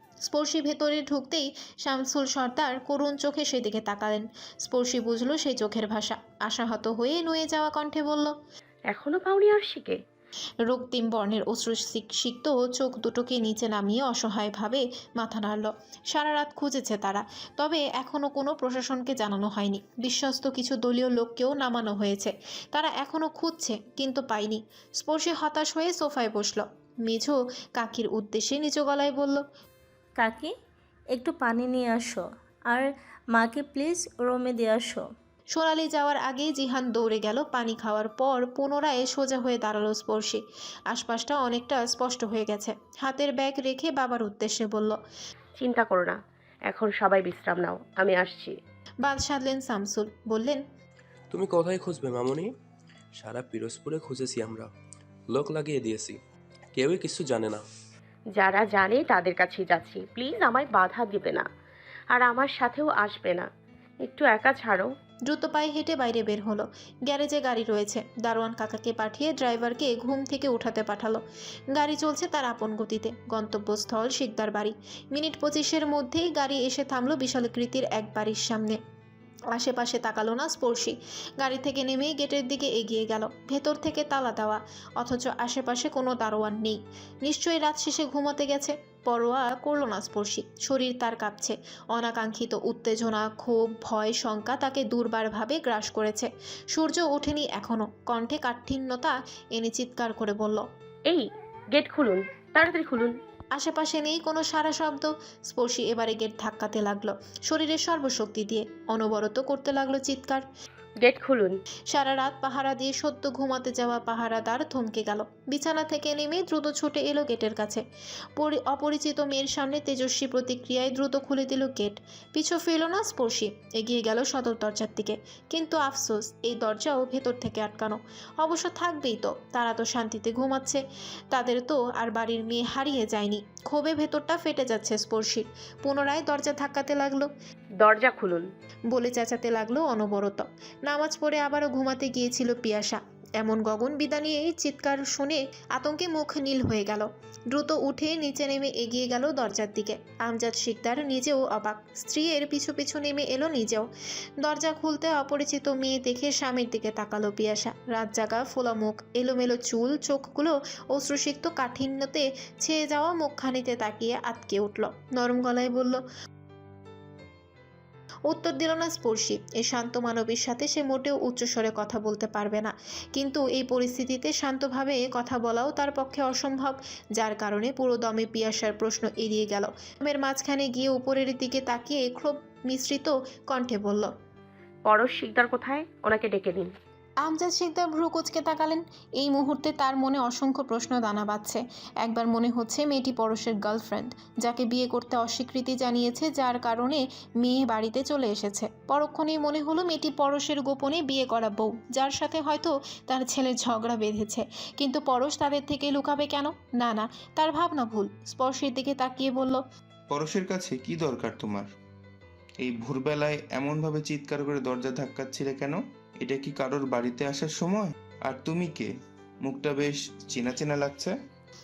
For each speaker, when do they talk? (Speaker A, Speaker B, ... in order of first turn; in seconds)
Speaker A: 0.3-8.3, 10.7-29.4, 35.5-40.4, 40.9-45.0, 49.0-50.6, 65.3-71.2, 71.7-78.8, 79.5-100.6, 103.6-110.5, 111.9-117.8, 118.4-130.8, 131.3-137.3, 138.9-153.9, 154.4-166.0, 168.3-184.1, 187.2-209.6
Speaker B: 8.9-10.0, 45.6-46.2, 46.7-48.5, 58.4-61.5, 62.1-63.5, 64.1-64.9, 101.1-103.2, 111.0-111.6, 137.8-138.5, 184.9-186.7
Speaker C: 30.2-30.5, 31.1-35.1
Speaker D: 51.3-52.5, 53.2-54.7, 55.3-56.2, 56.7-57.6
Speaker E: 210.1-211.7, 212.6-218.9, 219.4-221.1